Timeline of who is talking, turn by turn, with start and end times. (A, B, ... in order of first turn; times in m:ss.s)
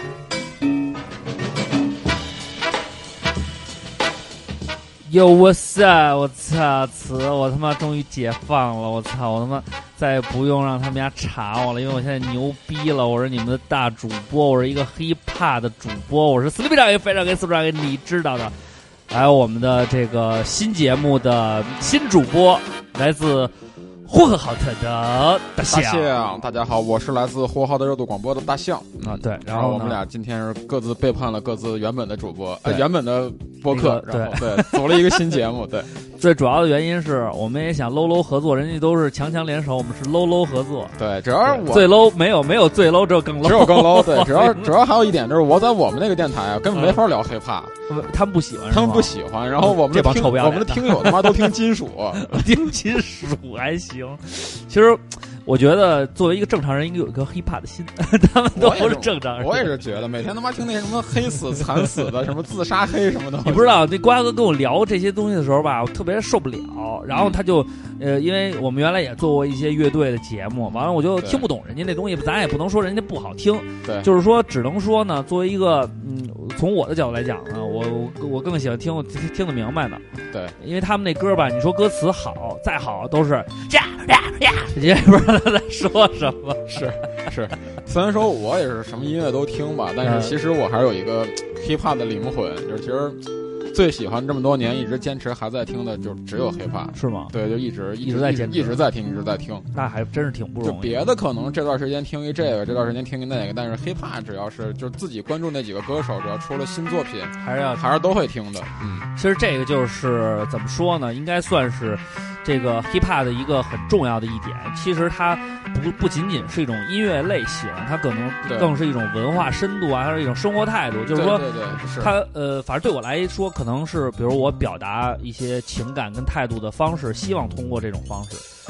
0:05.1-0:18.6 A
0:19.1-0:23.5 A
0:24.1-0:26.1 A
0:25.6-0:35.9 B
0:29.0-0:30.0 A
0:33.7-0:35.2 A
0:36.2-0:40.9 A
0:41.0-0:42.0 B
0:41.4-0:44.8 A
0:43.4-0:47.7 B
0:46.7-0:47.0 A
0:47.9-0:51.6 A
0:48.7-0:52.3 B
0:52.2-0:59.8 A
0:58.6-1:03.8 B
1:03.4-1:20.0 A
1:07.1-1:07.4 B
1:10.6-1:11.5 B
1:13.8-1:14.1 B
1:20.6-1:26.8 A
1:26.7-1:39.7 B
1:30.0-1:30.4 A
1:37.0-1:37.3 A
1:38.0-1:38.8 A
1:39.7-1:41.0 A
1:40.6-1:49.1 B
1:47.4-1:47.8 A
1:49.2-2:08.4 A
1:58.5-1:58.7 B
2:01.1-2:02.1 B